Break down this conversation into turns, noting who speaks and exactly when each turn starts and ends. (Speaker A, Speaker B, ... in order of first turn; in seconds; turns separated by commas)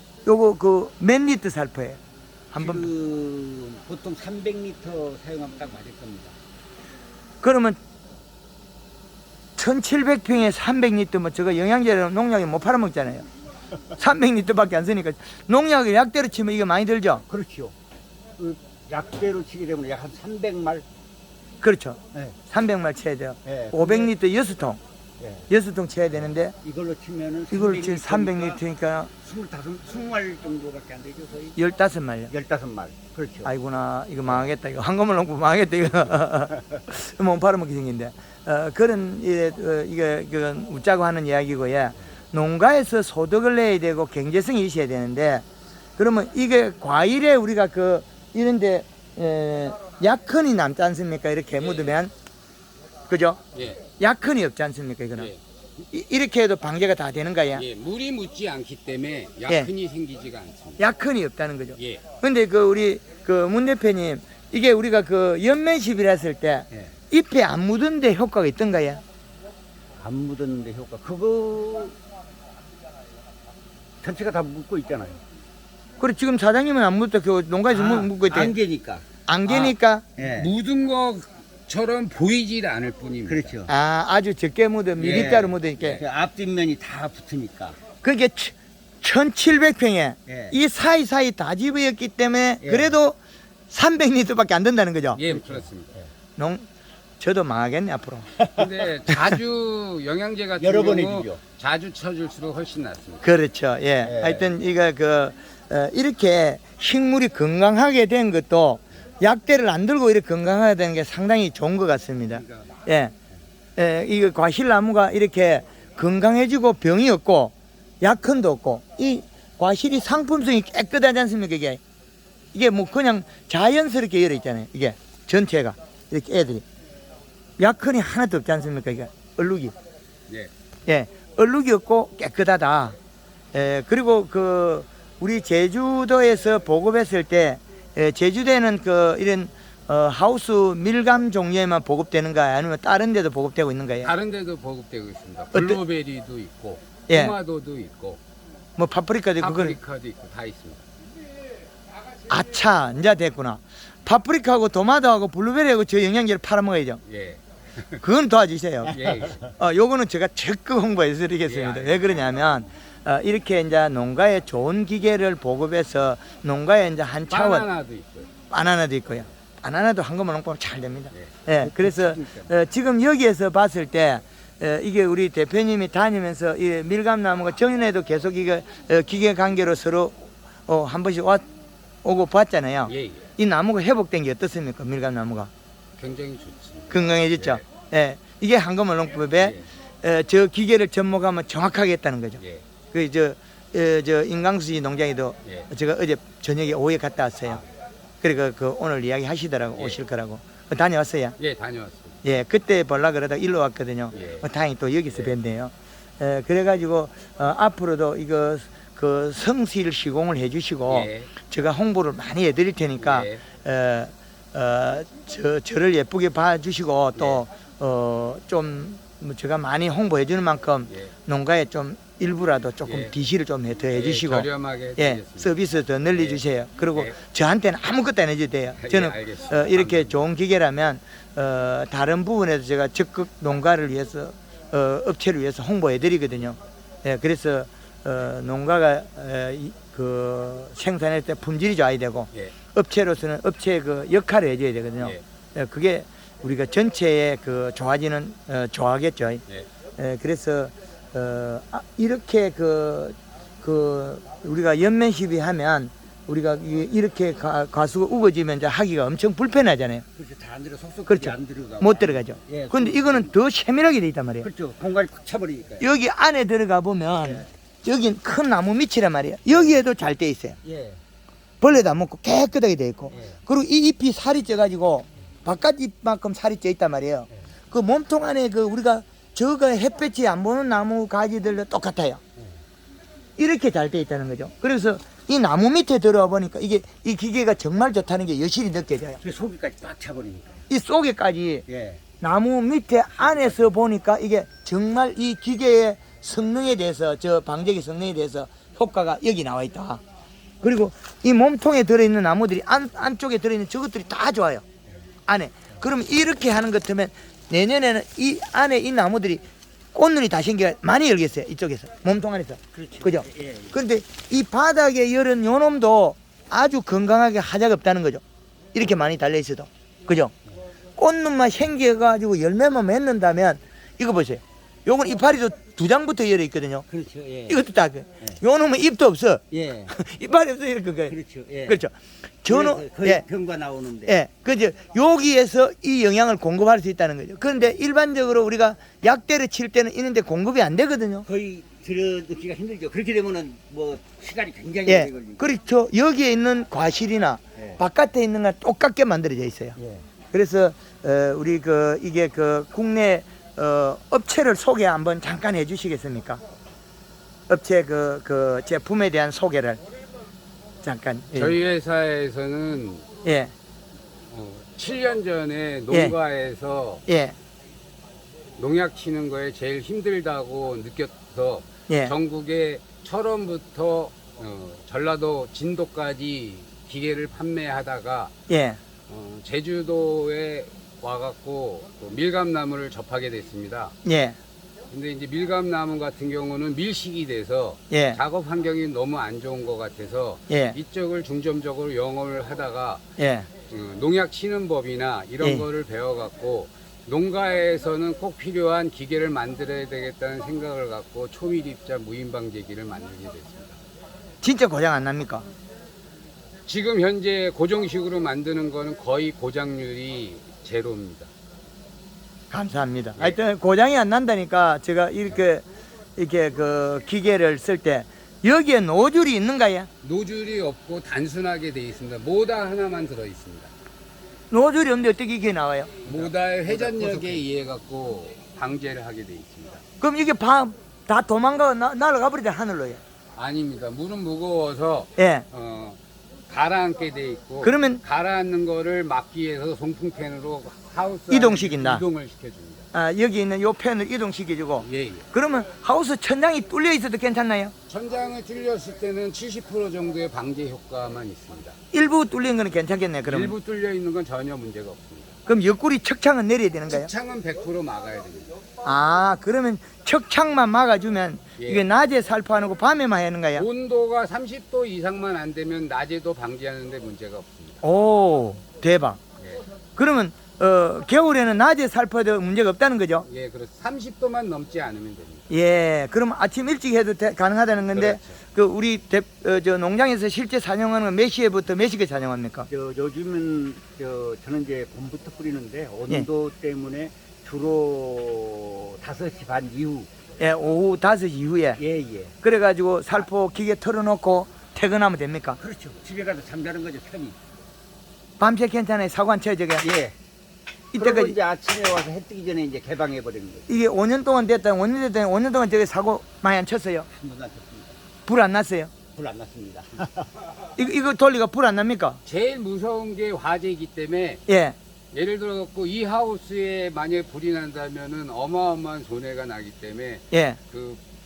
Speaker A: 0.2-2.0, Speaker A: 2.5-2.9, Speaker B: 2.5-6.3, Speaker A: 7.4-7.8, Speaker A: 9.6-13.2, Speaker A: 14.0-17.2, Speaker B: 17.3-17.7, Speaker B: 18.4-20.9, Speaker A: 21.6-24.8, Speaker B: 23.4-24.1, Speaker B: 25.2-25.5, Speaker A: 25.5-26.6, Speaker B: 26.6-28.6, Speaker A: 27.5-29.1, Speaker B: 29.2-31.6, Speaker A: 31.6-32.3, Speaker B: 32.3-33.5, Speaker A: 33.4-45.4, Speaker A: 46.0-52.1, Speaker C: 51.6-52.0, Speaker A: 53.1-55.3, Speaker C: 53.5-53.8, Speaker A: 55.9-57.6, Speaker C: 57.5-60.8, Speaker A: 60.8-69.0, Speaker C: 61.8-62.0, Speaker B: 70.0-72.0, Speaker B: 74.0-75.2, Speaker A: 76.0-78.6, Speaker B: 77.7-80.5, Speaker A: 79.3-80.0, Speaker C: 80.2-83.5, Speaker B: 83.3-83.7, Speaker A: 83.7-86.0, Speaker B: 85.0-87.8, Speaker C: 85.0-85.4, Speaker A: 88.0-93.2, Speaker B: 90.3-90.6, Speaker B: 92.6-92.9, Speaker A: 93.7-95.2, Speaker C: 95.1-95.9, Speaker B: 95.2-96.0, Speaker A: 96.4-96.7, Speaker A: 97.2-98.3, Speaker B: 98.4-98.7, Speaker C: 98.5-103.3, Speaker B: 100.6-101.4, Speaker A: 103.2-113.1, Speaker B: 104.0-104.5, Speaker B: 112.4-112.7, Speaker A: 113.8-121.8, Speaker A: 122.5-126.6, Speaker A: 127.6-129.7, Speaker A: 130.9-133.0, Speaker A: 133.5-144.1, Speaker C: 144.0-148.2, Speaker A: 145.5-145.8, Speaker A: 147.1-147.3, Speaker A: 148.8-149.8, Speaker C: 149.4-150.9, Speaker A: 152.3-157.0, Speaker C: 157.1-158.0, Speaker A: 158.0-159.0, Speaker C: 158.9-159.5, Speaker A: 159.5-167.7, Speaker C: 161.4-162.6, Speaker C: 167.3-168.3, Speaker A: 168.5-181.4, Speaker B: 171.6-172.5, Speaker A: 182.0-185.5, Speaker C: 182.9-183.3, Speaker C: 186.0-187.7, Speaker A: 186.9-192.4, Speaker C: 189.4-189.7, Speaker C: 192.4-192.6, Speaker A: 192.9-197.6, Speaker C: 195.4-195.7, Speaker A: 198.2-201.3, Speaker C: 201.4-202.2, Speaker A: 202.2-249.4, Speaker C: 204.1-204.4, Speaker C: 210.9-211.3, Speaker C: 213.0-213.4, Speaker C: 217.2-217.4, Speaker C: 222.8-223.1, Speaker C: 223.9-225.5, Speaker C: 226.1-226.4, Speaker C: 228.8-230.2, Speaker A: 250.0-260.0, Speaker B: 260.2-263.3, Speaker A: 261.1-264.5, Speaker B: 264.4-265.9, Speaker A: 265.8-270.6, Speaker B: 267.2-267.5, Speaker B: 270.6-271.0, Speaker A: 271.6-282.2, Speaker B: 273.1-273.4, Speaker A: 283.4-289.2, Speaker B: 289.2-290.6, Speaker A: 290.7-291.6, Speaker B: 291.7-292.0, Speaker A: 292.2-300.0, Speaker A: 300.6-304.6, Speaker A: 305.3-309.4, Speaker A: 309.9-318.2, Speaker B: 312.7-313.8, Speaker A: 318.7-320.3, Speaker A: 321.0-326.8, Speaker B: 326.9-327.6, Speaker A: 327.5-331.2, Speaker B: 329.5-330.0, Speaker B: 331.1-331.8, Speaker A: 331.7-331.9, Speaker A: 332.4-333.2, Speaker B: 332.4-334.2, Speaker A: 334.1-341.3, Speaker B: 341.2-345.5, Speaker A: 344.9-349.8, Speaker B: 349.8-350.0, Speaker A: 350.3-356.4, Speaker A: 357.5-359.8, Speaker A: 360.8-361.6, Speaker C: 361.3-363.0, Speaker A: 363.2-363.5, Speaker C: 364.3-367.0, Speaker A: 367.1-367.3, Speaker C: 368.6-378.3, Speaker A: 371.9-372.1, Speaker A: 378.5-378.8, Speaker C: 379.1-383.9, Speaker A: 384.1-384.4, Speaker C: 384.9-393.0, Speaker A: 387.9-388.2, Speaker A: 390.5-390.8, Speaker A: 393.2-393.5, Speaker C: 393.6-403.8, Speaker A: 404.4-405.4, Speaker C: 406.7-411.3, Speaker A: 412.5-415.6, Speaker A: 416.2-419.9, Speaker C: 420.0-423.7, Speaker A: 424.5-426.1, Speaker C: 426.1-429.8, Speaker B: 426.8-427.4, Speaker A: 430.0-433.0, Speaker C: 433.4-442.9, Speaker A: 435.2-435.4, Speaker A: 437.6-438.0, Speaker A: 441.3-442.0, Speaker A: 442.9-447.7, Speaker C: 444.8-445.3, Speaker C: 447.9-451.8, Speaker A: 451.9-453.6, Speaker C: 453.2-455.4, Speaker A: 455.5-457.1, Speaker C: 456.9-458.5, Speaker A: 458.8-463.7, Speaker C: 461.6-461.8, Speaker C: 463.6-467.8, Speaker A: 467.8-469.2, Speaker A: 470.0-473.3, Speaker C: 473.2-475.5, Speaker A: 475.5-482.7, Speaker C: 477.9-478.4, Speaker B: 482.7-490.1, Speaker A: 490.4-491.8, Speaker B: 491.8-492.3, Speaker A: 492.4-495.6, Speaker B: 495.6-497.4, Speaker A: 498.4-499.9, Speaker B: 499.8-500.1, Speaker B: 500.9-503.7, Speaker A: 500.9-501.4, Speaker A: 503.7-507.1, Speaker B: 507.1-508.0, Speaker A: 508.3-508.9, Speaker B: 509.2-510.3, Speaker A: 510.8-512.2, Speaker C: 512.2-514.4, Speaker A: 514.5-514.8, Speaker C: 515.1-521.0, Speaker A: 520.3-520.6